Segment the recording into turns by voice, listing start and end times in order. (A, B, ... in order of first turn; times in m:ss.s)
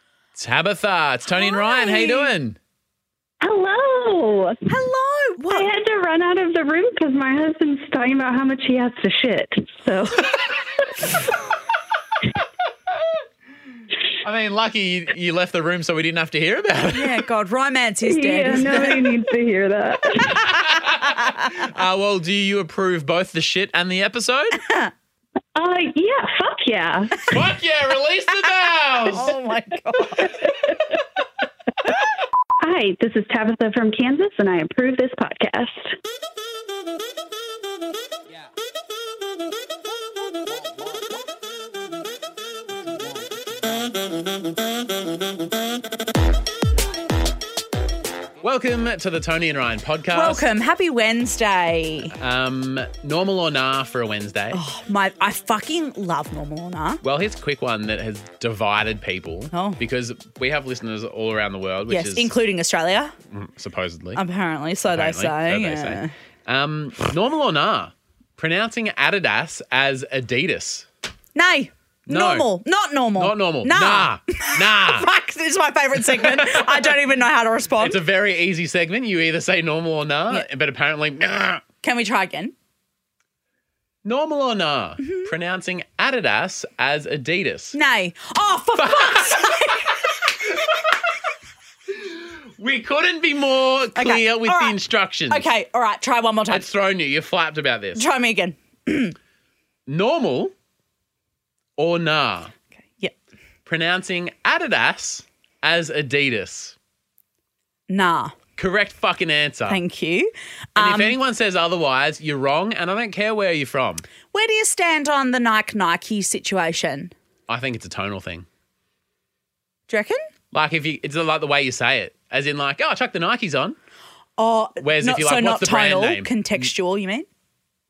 0:00.4-0:02.6 A
0:01.3-0:02.3 B
0:03.4-0:04.7 C
0:04.7-0:05.7 B
0:05.5-0:11.2 C
0:14.2-0:17.2 A
0:16.9-0:19.1 B
0:18.0-0:20.5 C
0:20.4-0:24.6 A
0:21.1-0:21.5 B
0:25.5-0:27.3 C
0:27.2-0:29.3 A
0:29.0-0:30.4 B
0:32.6-0:36.0 C
0:48.4-0:50.5 A
0:50.1-0:52.1 B
0:52.2-0:54.6 A
0:54.5-0:57.0 B
0:57.0-1:02.3 A
0:59.5-0:59.8 B
1:01.9-1:03.1 B
1:03.3-1:04.2 A
1:04.1-1:06.1 B
1:04.9-1:10.9 A
1:11.3-1:18.0 B
1:12.0-1:12.5 A
1:13.2-1:15.1 A
1:15.9-1:17.0 A
1:17.8-1:21.6 A
1:21.8-1:22.5 B
1:24.0-1:27.8 A
1:25.0-1:25.3 B
1:27.7-1:30.1 B
1:28.8-1:30.9 A
1:31.9-1:35.4 A
1:33.9-1:34.8 B
1:35.3-1:36.6 B
1:36.5-1:38.0 A
1:38.0-1:39.2 B
1:39.9-1:40.5 A
1:41.8-1:42.5 A
1:43.6-1:46.8 A
1:47.9-1:48.3 B
1:48.6-1:49.8 A
1:49.7-1:51.2 B
1:50.8-1:54.0 A
1:54.3-1:57.1 B
1:57.5-1:58.5 A
1:59.9-2:00.2 B
2:00.5-2:03.8 A
2:04.4-2:07.3 B
2:04.8-2:06.6 A